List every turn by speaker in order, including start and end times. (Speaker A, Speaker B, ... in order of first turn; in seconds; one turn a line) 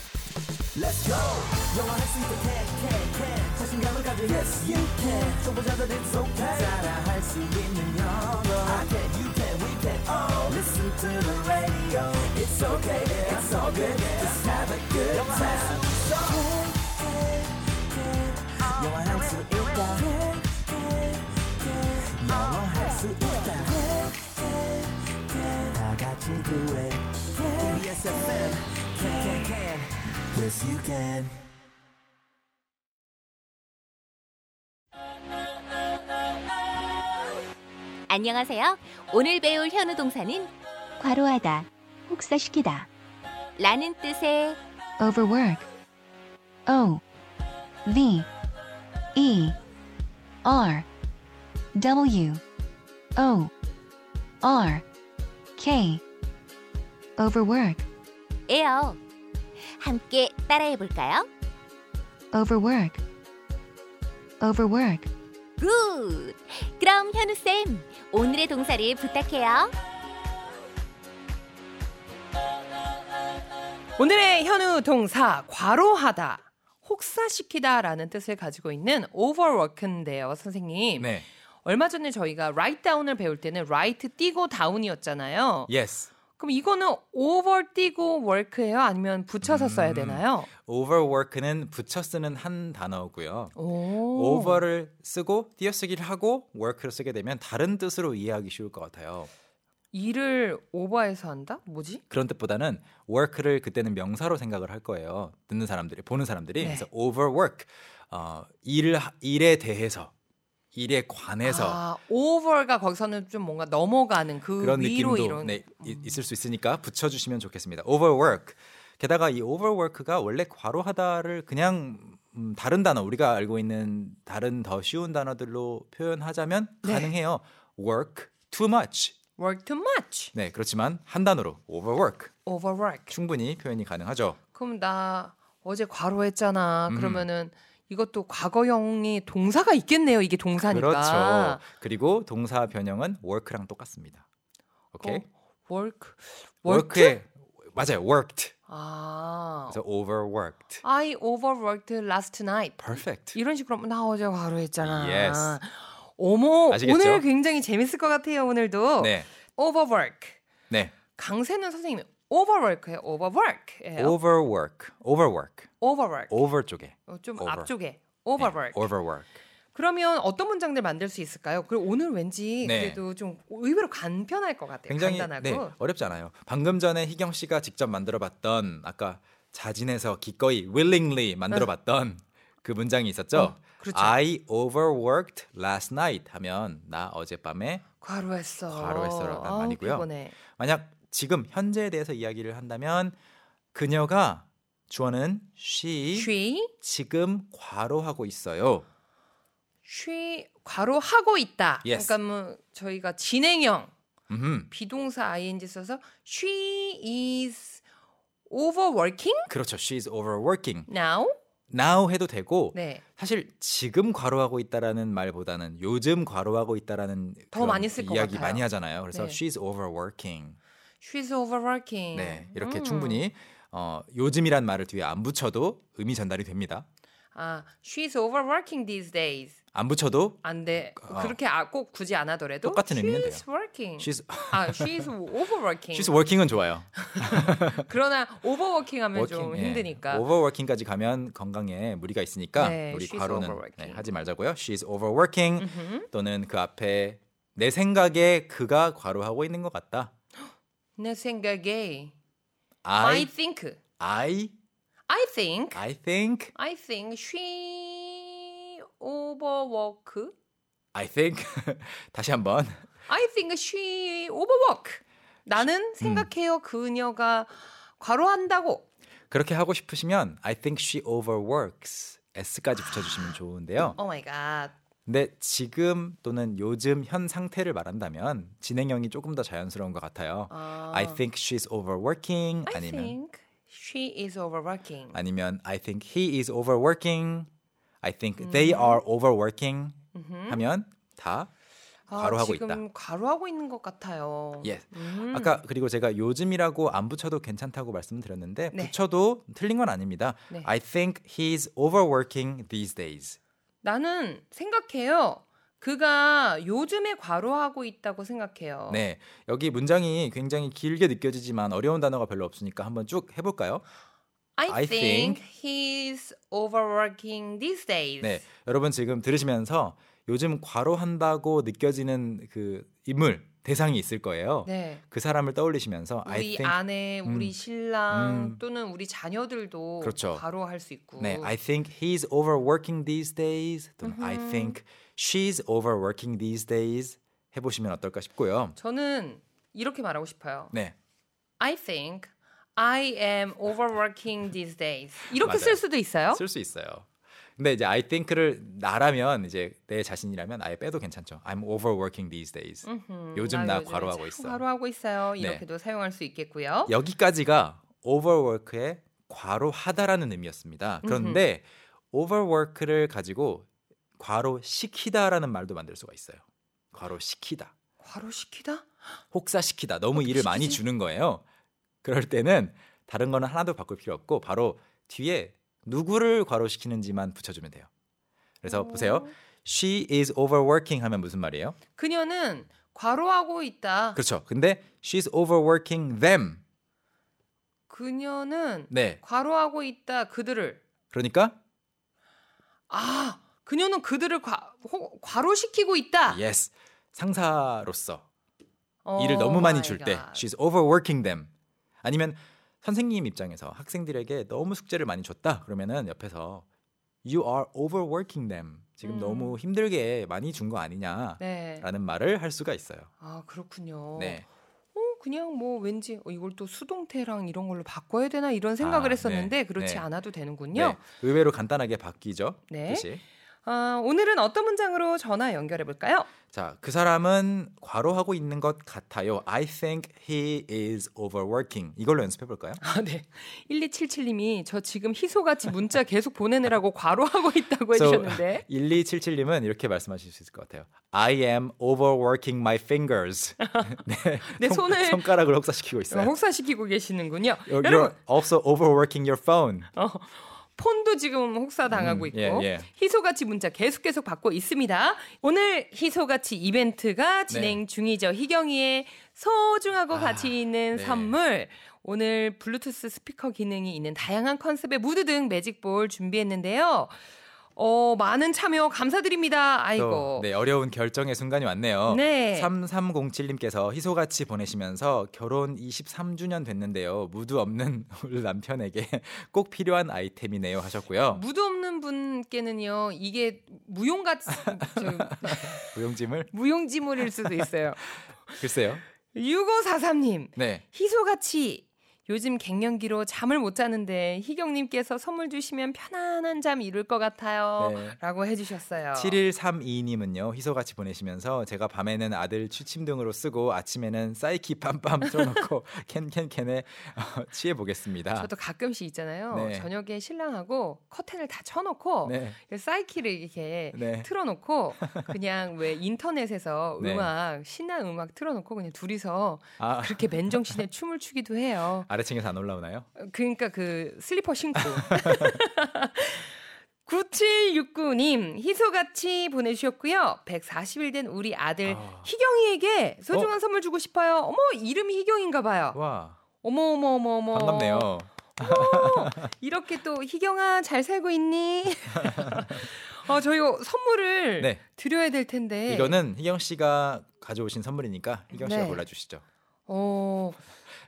Speaker A: 0.7-31.3
Speaker B: 38.1-42.9
Speaker B: 43.6-44.6
Speaker C: 45.0-45.7
Speaker C: 46.7-47.0
Speaker C: 47.9-48.3
Speaker C: 49.2-49.6
Speaker C: 50.4-50.9
Speaker C: 51.8-52.4
Speaker C: 53.2-53.5
Speaker C: 54.4-54.8
Speaker C: 55.6-56.0
Speaker C: 57.2-57.9
Speaker B: 58.5-59.0
Speaker B: 59.7-61.3
Speaker C: 62.3-63.0
Speaker C: 64.4-65.1
Speaker B: 65.6-69.7
Speaker D: 74.0-85.7
Speaker E: 81.0-81.3
Speaker E: 85.7-86.1
Speaker D: 86.4-90.5
Speaker E: 89.4-93.6
Speaker D: 93.6-94.7
Speaker E: 94.1-99.3
Speaker D: 99.9-102.0
Speaker E: 102.1-110.1
Speaker D: 106.6-106.9
Speaker E: 110.8-111.8
Speaker D: 111.4-116.2
Speaker E: 114.6-129.2
Speaker D: 126.8-127.1
Speaker D: 129.4-130.3
Speaker E: 130.3-132.3
Speaker D: 132.5-133.1
Speaker E: 133.1-134.4
Speaker D: 134.5-141.6
Speaker E: 136.9-137.3
Speaker E: 140.6-144.2
Speaker E: 144.9-145.3
Speaker D: 145.0-147.2
Speaker E: 146.7-148.5
Speaker D: 148.7-149.8
Speaker E: 149.7-150.8
Speaker D: 150.8-160.4
Speaker E: 152.8-153.4
Speaker E: 154.8-155.6
Speaker E: 156.7-157.2
Speaker E: 159.0-159.3
Speaker D: 161.2-164.2
Speaker E: 164.0-165.7
Speaker D: 165.8-166.4
Speaker E: 166.3-167.7
Speaker D: 167.1-168.9
Speaker E: 168.4-169.3
Speaker D: 169.7-175.7
Speaker E: 172.6-173.0
Speaker E: 174.9-187.8
Speaker D: 183.3-184.1
Speaker D: 188.0-190.3
Speaker E: 188.7-193.2
Speaker E: 193.7-198.9
Speaker D: 196.2-196.7
Speaker D: 199.8-203.9
Speaker E: 201.8-202.2
Speaker E: 204.3-204.7
Speaker D: 204.7-207.8
Speaker D: 208.5-209.5
Speaker E: 209.5-210.9
Speaker D: 210.9-211.4
Speaker E: 211.7-220.6
Speaker D: 212.7-213.0
Speaker D: 217.5-219.4
Speaker D: 221.0-223.3
Speaker E: 222.1-226.9
Speaker D: 227.3-229.6
Speaker E: 229.7-231.4
Speaker D: 230.4-236.2
Speaker E: 232.6-235.1
Speaker E: 235.9-237.9
Speaker D: 237.0-240.3
Speaker E: 239.1-250.1
Speaker D: 242.6-244.1
Speaker D: 245.6-246.1
Speaker D: 251.0-252.2
Speaker E: 252.8-253.3
Speaker D: 253.0-253.8
Speaker E: 254.0-254.5
Speaker D: 255.1-255.8
Speaker E: 255.7-256.5
Speaker D: 256.5-260.3
Speaker E: 260.9-262.9
Speaker D: 263.1-268.9
Speaker E: 266.0-266.3
Speaker E: 269.3-274.0
Speaker D: 272.8-274.8
Speaker E: 275.1-283.2
Speaker D: 280.5-281.2
Speaker D: 282.7-285.2
Speaker E: 285.1-287.5
Speaker E: 288.0-291.5
Speaker D: 288.4-289.0
Speaker D: 290.1-290.6
Speaker D: 292.1-295.6
Speaker E: 292.1-292.8
Speaker E: 294.6-303.4
Speaker D: 303.8-309.1
Speaker E: 308.9-313.9
Speaker D: 314.6-318.4
Speaker E: 314.7-315.4
Speaker E: 318.2-327.6
Speaker D: 324.7-325.0
Speaker D: 326.2-331.5
Speaker E: 328.1-328.6
Speaker E: 330.0-330.4
Speaker E: 331.2-338.8
Speaker D: 334.0-334.8
Speaker D: 338.8-340.8
Speaker D: 341.6-346.4
Speaker E: 345.3-354.6
Speaker D: 352.8-356.9
Speaker E: 355.4-355.6
Speaker E: 356.9-363.7
Speaker D: 361.0-361.5
Speaker E: 364.2-367.7
Speaker D: 368.0-368.9
Speaker E: 369.3-371.4
Speaker D: 370.1-370.8
Speaker E: 372.0-377.9
Speaker E: 378.6-381.8
Speaker D: 378.7-379.3
Speaker D: 382.0-384.2
Speaker E: 384.1-386.6
Speaker D: 387.9-390.8
Speaker E: 388.9-389.2
Speaker E: 391.1-391.6
Speaker D: 392.9-396.4
Speaker E: 396.3-398.3
Speaker D: 399.0-400.4
Speaker E: 399.2-401.5
Speaker E: 402.0-406.6
Speaker E: 407.2-413.1
Speaker D: 409.0-409.6
Speaker D: 411.4-411.9
Speaker D: 413.2-414.4
Speaker E: 414.2-414.5
Speaker D: 414.9-421.0
Speaker E: 418.8-420.1
Speaker E: 420.7-423.2
Speaker D: 422.7-423.1
Speaker D: 423.6-426.3
Speaker E: 426.5-432.8
Speaker D: 432.8-438.6
Speaker E: 437.9-446.3
Speaker D: 443.6-445.3
Speaker D: 446.1-448.2
Speaker E: 447.6-449.9
Speaker D: 449.9-467.2
Speaker E: 451.9-452.9
Speaker E: 457.5-457.8
Speaker E: 460.1-461.4
Speaker D: 467.8-470.5
Speaker E: 470.0-481.4
Speaker D: 472.1-472.7
Speaker D: 481.3-485.9
Speaker E: 484.7-486.5
Speaker D: 486.5-488.8
Speaker E: 488.6-489.0
Speaker D: 489.3-499.4
Speaker E: 490.6-490.8
Speaker E: 497.8-498.2
Speaker E: 499.1-508.5
Speaker D: 508.4-522.1
Speaker E: 509.5-509.9
Speaker E: 512.2-512.6
Speaker E: 513.9-514.3
Speaker E: 515.0-515.4
Speaker E: 517.0-517.3
Speaker E: 519.8-520.8
Speaker E: 522.0-523.1
Speaker D: 523.2-526.5
Speaker E: 524.8-525.6
Speaker D: 527.0-536.0
Speaker E: 531.9-532.3
Speaker E: 535.9-536.4
Speaker D: 536.6-546.2
Speaker E: 537.5-539.5
Speaker E: 542.2-542.8
Speaker E: 545.9-549.4
Speaker D: 548.5-549.1
Speaker D: 549.9-550.6